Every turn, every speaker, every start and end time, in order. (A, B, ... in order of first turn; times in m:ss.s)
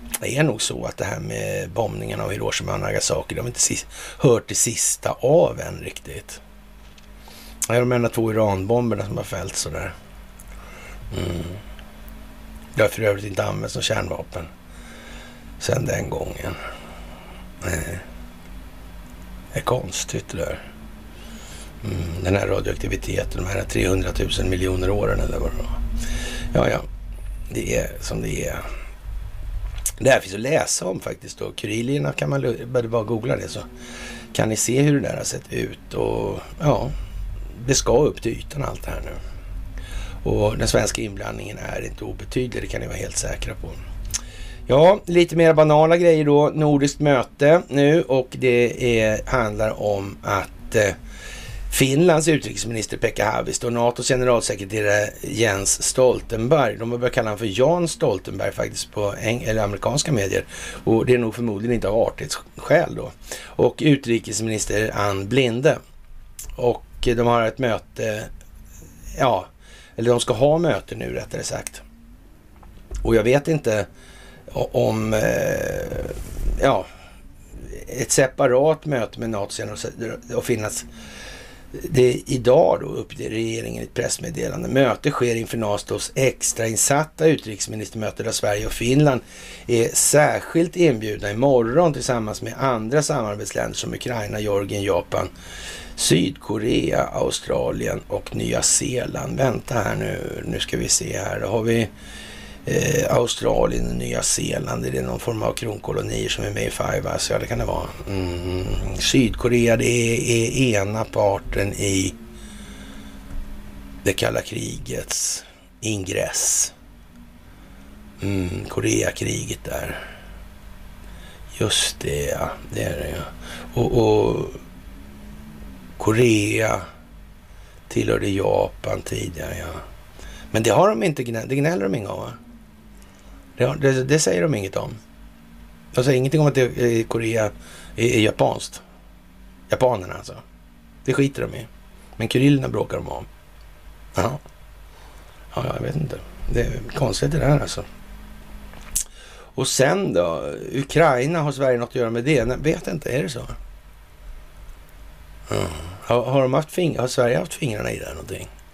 0:00.2-0:06.4 A
0:07.7-0:09.9 A
0:11.1-0:11.6 A
0:12.7-0:14.5 A
0:15.6-0:16.6 A
0:17.6-0:18.0 A
0:19.5-0:20.6 A
0:21.8-0:25.8 A
0:26.5-0:26.9 A
0:27.5-0:28.6 A
0:30.0-0:33.7 A
0:34.3-0:36.9 A
0:37.5-0:39.2 A
0:40.2-0:43.8 A
0:44.7-0:51.0 A
0:51.7-1:05.8 A
1:06.6-1:08.3 A
1:09.2-1:11.8 A
1:13.0-1:13.9 A
1:14.5-1:16.9 A
1:17.6-1:20.9 A
1:21.7-1:35.3 A
1:36.0-1:41.9 A
1:42.6-1:52.2 A
1:54.0-1:56.7 A
1:58.2-2:00.0 A
2:01.5-2:04.6 A
2:06.0-2:06.8 A
2:07.9-2:09.8 A
2:10.5-2:12.4 A
2:13.6-2:15.0 A
2:15.9-2:18.8 A
2:19.7-2:20.4 A
2:21.0-2:23.3 A
2:24.1-2:24.4 A
2:25.5-2:27.9 A
2:29.5-2:33.6 A
2:35.5-2:38.5 A